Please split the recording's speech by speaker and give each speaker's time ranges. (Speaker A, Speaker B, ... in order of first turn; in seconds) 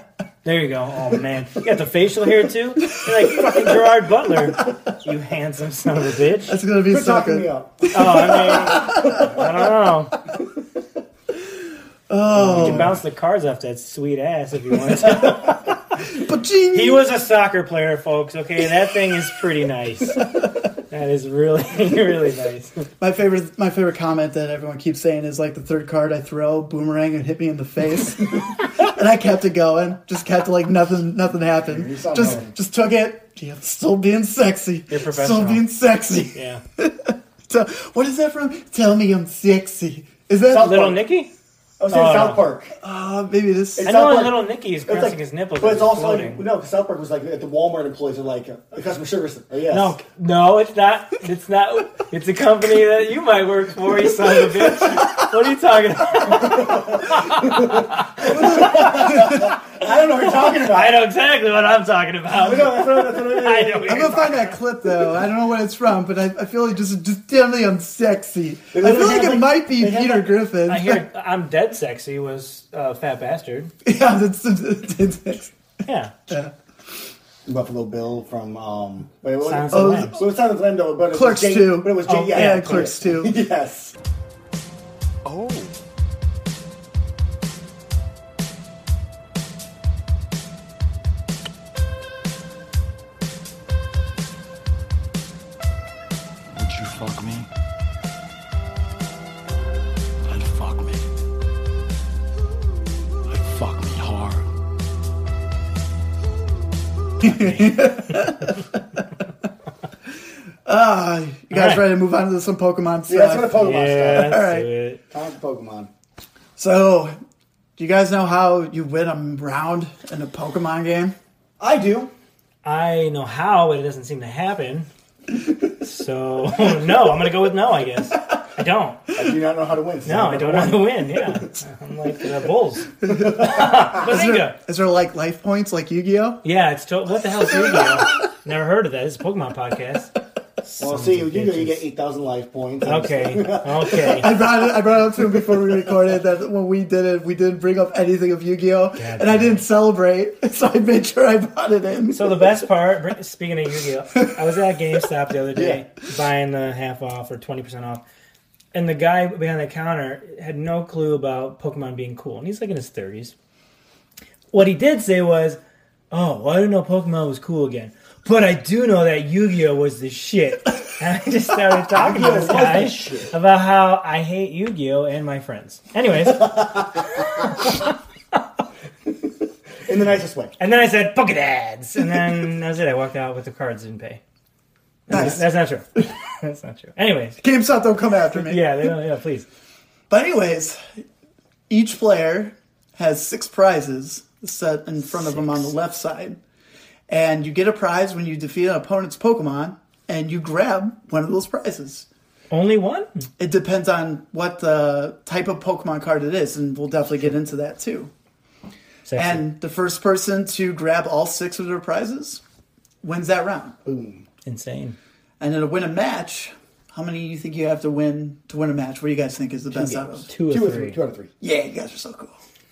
Speaker A: 0.4-6.6, 7.9-10.2, 12.3-16.0, 16.7-22.9, 34.9-35.6, 36.3-36.6, 40.5-41.3, 41.9-42.4, 43.8-46.5, 49.7-59.5, 60.3-64.5, 70.7-73.7, 75.9-76.2, 79.4-80.2, 82.1-83.0, 107.2-107.9, 111.5-111.9, 113.6-115.0, 122.6-124.9, 125.7-129.1, 130.1-134.6, 136.4-141.8, 142.8-144.3, 149.0-149.7, 152.1-158.0, 158.7-163.3, 164.5-165.6, 166.1-177.9, 180.6-184.2, 185.1-187.4, 188.3-189.5, 195.2-195.7, 202.5-203.2, 209.1-209.4, 214.4-215.0, 220.3-221.0
Speaker B: 3.0-3.5, 6.5-9.3, 12.1-13.0, 16.0-17.1, 23.0-41.0, 42.8-43.9, 58.2-59.5, 63.9-71.0, 73.8-75.5, 76.3-76.5, 79.7-80.2, 81.1-83.3, 107.2-109.0, 110.7-114.7, 116.6-117.2, 117.8-121.2, 133.1-136.4, 144.1-152.6, 185.1-185.4, 187.4-188.9, 190.1-191.0, 191.7-196.4, 197.1-202.1, 203.4-208.1, 209.2-212.4, 213.0-213.8, 215.4-220.3, 221.4-222.3
Speaker C: 6.9-9.5, 12.5-13.0, 31.6-32.5, 40.5-41.0, 41.8-42.7, 43.8-50.0, 56.3-61.0, 62.3-64.3, 68.7-70.3, 77.5-83.9, 113.1-114.4, 115.1-115.9, 121.6-122.1, 129.2-131.4, 133.1-134.1, 140.8-144.4, 155.6-155.8, 171.9-173.3, 176.5-177.2, 179.8-180.6, 213.8-214.2, 219.7-221.3
Speaker D: 96.5-97.5, 100.2-101.1, 103.2-104.5